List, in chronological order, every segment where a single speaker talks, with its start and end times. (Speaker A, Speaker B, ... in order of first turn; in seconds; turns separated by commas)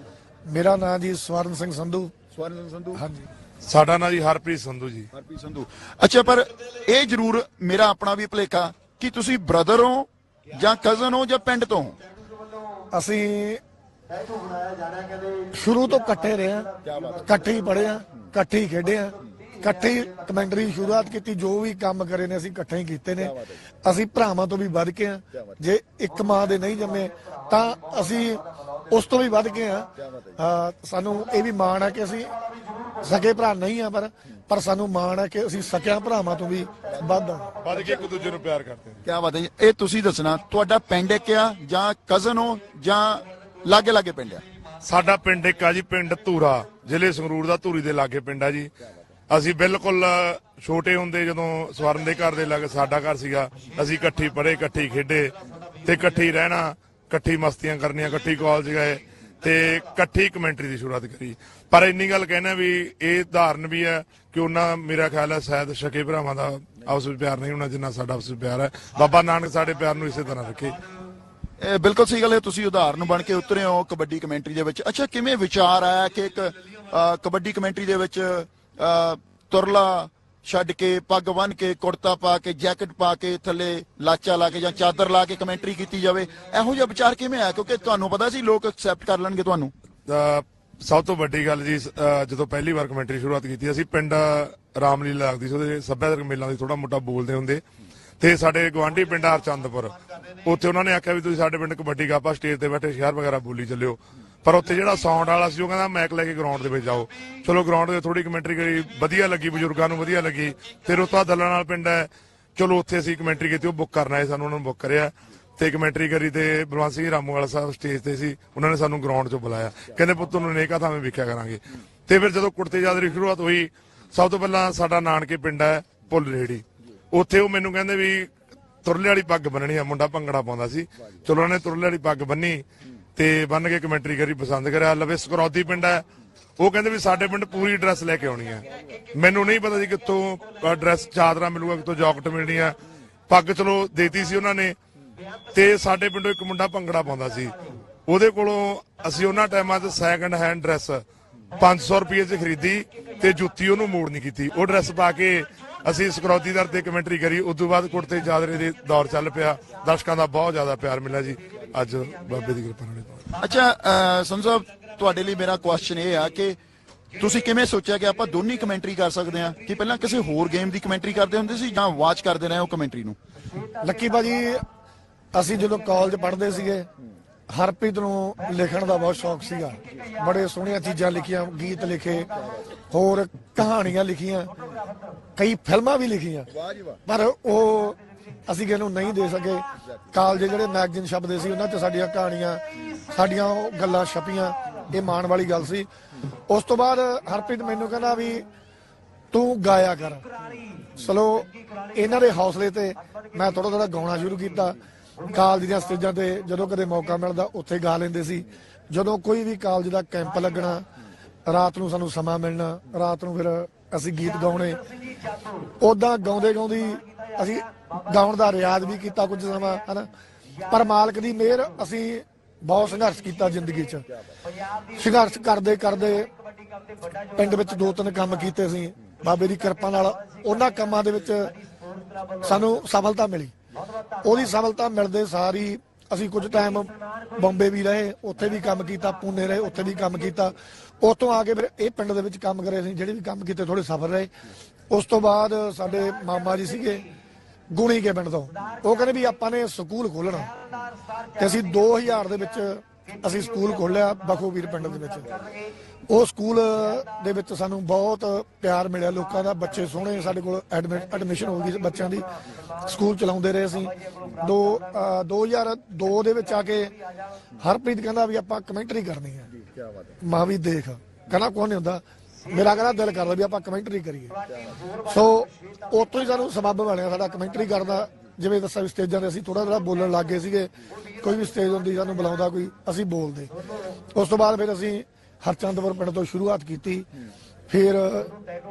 Speaker A: 0.5-2.1, Speaker B: 2.3-3.0, Speaker A: 3.0-3.2, Speaker C: 3.6-5.1, Speaker B: 5.1-12.0, Speaker A: 12.9-13.6, Speaker A: 15.4-16.7, Speaker B: 16.8-17.3, Speaker A: 17.2-32.3, Speaker A: 33.0-37.5, Speaker C: 37.6-39.0, Speaker B: 39.0-44.4, Speaker C: 44.8-48.7, Speaker C: 49.3-70.8, Speaker B: 71.6-89.7, Speaker C: 90.1-97.6, Speaker C: 98.2-128.3, Speaker C: 128.8-132.6, Speaker C: 133.2-136.0, Speaker C: 136.6-138.6, Speaker C: 139.2-142.8, Speaker C: 143.3-144.7, Speaker C: 145.5-147.5, Speaker C: 148.1-151.0, Speaker C: 151.6-163.3, Speaker B: 163.3-166.6, Speaker B: 167.2-173.2, Speaker A: 173.8-174.6, Speaker A: 175.3-176.9, Speaker A: 177.5-182.3, Speaker A: 182.9-184.5, Speaker A: 185.4-186.5, Speaker B: 186.6-187.0, Speaker A: 187.1-195.9, Speaker A: 196.5-198.4, Speaker A: 199.3-200.3, Speaker A: 200.9-204.8, Speaker A: 205.3-210.8, Speaker A: 211.5-214.8, Speaker A: 215.8-220.1, Speaker A: 220.7-224.0, Speaker A: 224.9-226.3, Speaker A: 227.3-231.5, Speaker A: 232.4-233.5, Speaker A: 234.2-244.3, Speaker A: 244.9-247.1, Speaker A: 247.7-250.5, Speaker A: 251.3-255.3, Speaker A: 256.1-262.3, Speaker A: 262.8-266.9, Speaker A: 267.6-269.5, Speaker A: 270.2-274.4, Speaker A: 275.0-283.5, Speaker A: 284.1-287.1, Speaker A: 287.7-288.3